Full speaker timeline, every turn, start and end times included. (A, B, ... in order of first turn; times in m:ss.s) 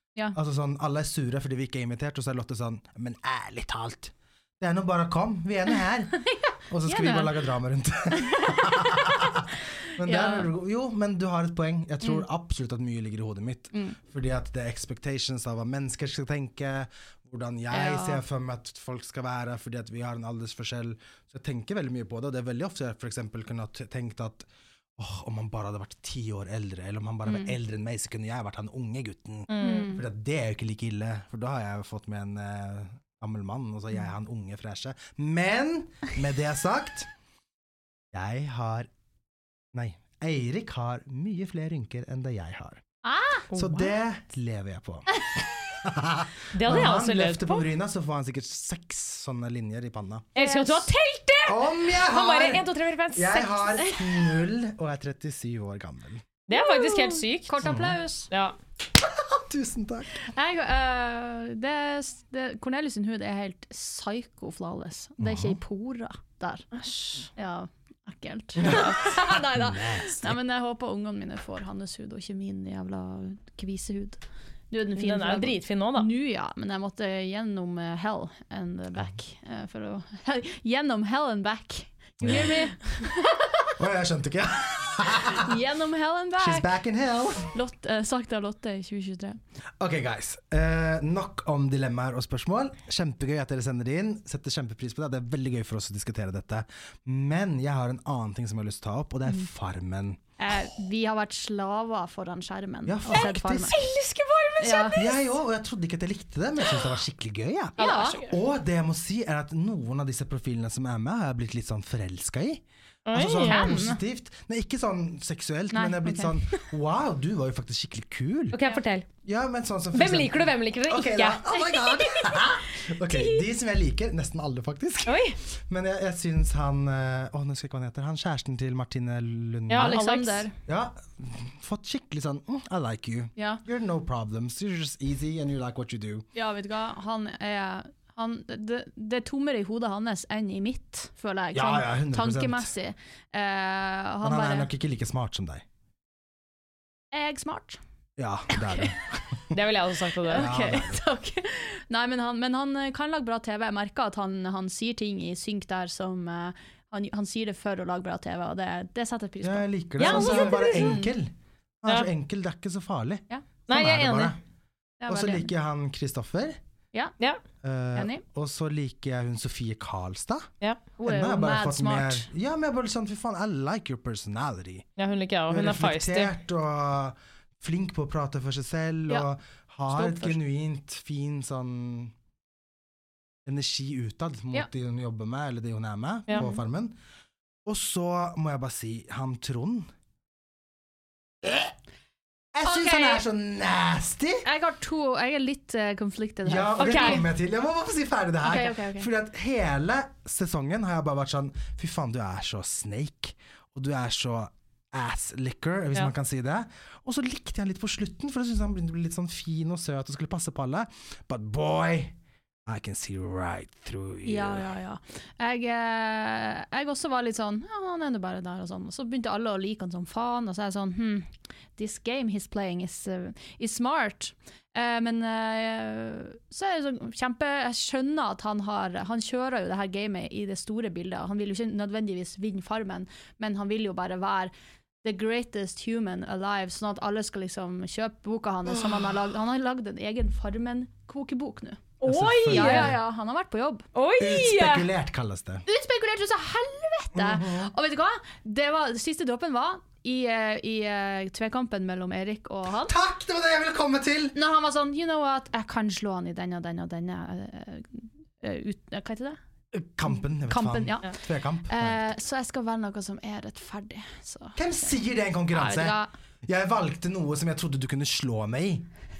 0:00.3-0:37.1 A
0:06.3-0:07.3 B
0:08.1-0:09.0 B
0:10.0-0:10.5 B
0:17.7-0:18.2 B
0:27.2-0:27.5 B
0:29.5-0:29.9 C
0:29.6-0:30.0 B
0:38.1-0:38.9 A
0:39.7-0:42.8 A
0:43.0-0:43.4 B
0:43.5-0:43.8 C
0:43.5-0:50.3 A
0:46.5-0:47.6 C
0:50.3-0:53.8 C
0:50.4-0:50.9 B
0:51.4-0:56.2 A
0:56.5-0:57.6 C
0:56.5-0:58.3 B
0:57.6-0:58.0 A
0:58.3-0:58.6 C
0:59.0-1:00.2 A
1:00.2-1:06.6 B
1:05.2-1:05.6 A
1:06.7-1:07.3 C
1:07.4-1:23.7 B
1:08.6-1:10.4 A
1:15.0-1:16.1 C
1:22.2-1:22.5 A
1:23.8-1:25.5 A
1:25.3-1:26.7 B
1:26.4-1:27.5 A
1:27.5-1:29.4 B
1:29.8-1:40.2 A
1:40.4-1:43.7 B
1:42.8-1:43.7 A
1:43.1-1:45.2 C
1:44.6-1:45.0 B
1:44.9-1:58.6 A
1:47.8-1:48.2 B
1:47.8-1:48.3 C
1:53.1-1:53.7 C
1:53.4-1:54.0 B
1:55.7-1:56.6 B
1:58.5-1:59.0 C
1:59.2-2:10.0 A
1:59.9-2:02.4 C
2:03.1-2:03.4 C
2:05.0-2:05.4 C
2:09.7-2:10.5 C
2:09.8-2:10.5 B
2:10.6-2:16.2 A
2:16.3-2:24.7 B
2:21.5-2:22.7 A
2:24.2-2:25.6 A
2:27.1-2:27.8 B
2:28.2-2:29.6 A
2:28.5-2:28.9 B
2:29.5-2:30.5 C
2:30.3-2:41.1 B
2:30.3-2:31.0 A
2:39.4-2:44.4 A
2:40.0-2:41.0 C
2:43.7-2:44.4 C
2:45.0-2:45.5 B
2:45.1-2:46.6 A
2:47.6-2:50.5 A
2:47.9-2:48.2 B
2:51.0-2:52.3 B
2:51.0-2:54.9 A
2:55.0-2:56.3 C
2:55.5-3:02.1 A
2:59.9-3:00.4 B
3:03.4-3:07.0 A
3:06.3-3:06.6 B
3:07.6-3:09.9 A
3:11.4-3:11.7 A
3:12.5-3:14.4 A
3:12.6-3:13.2 B
3:14.4-3:17.2 B
3:16.4-3:34.7 A
3:16.8-3:17.2 C
3:18.4-3:19.1 B
3:34.2-3:54.5 B
3:55.0-4:01.9 B
3:58.6-3:59.1 A
4:02.0-4:02.9 C
4:02.0-4:03.0 A
4:02.5-4:03.8 B
4:03.9-4:04.9 C
4:04.2-4:05.6 A
4:05.6-4:12.9 B
4:07.1-4:07.7 A
4:12.7-4:14.4 A
4:14.3-4:19.4 B
4:19.7-4:22.0 A
4:20.1-4:21.1 B
4:21.7-4:24.9 B
4:24.6-4:28.9 A
4:25.5-4:26.1 B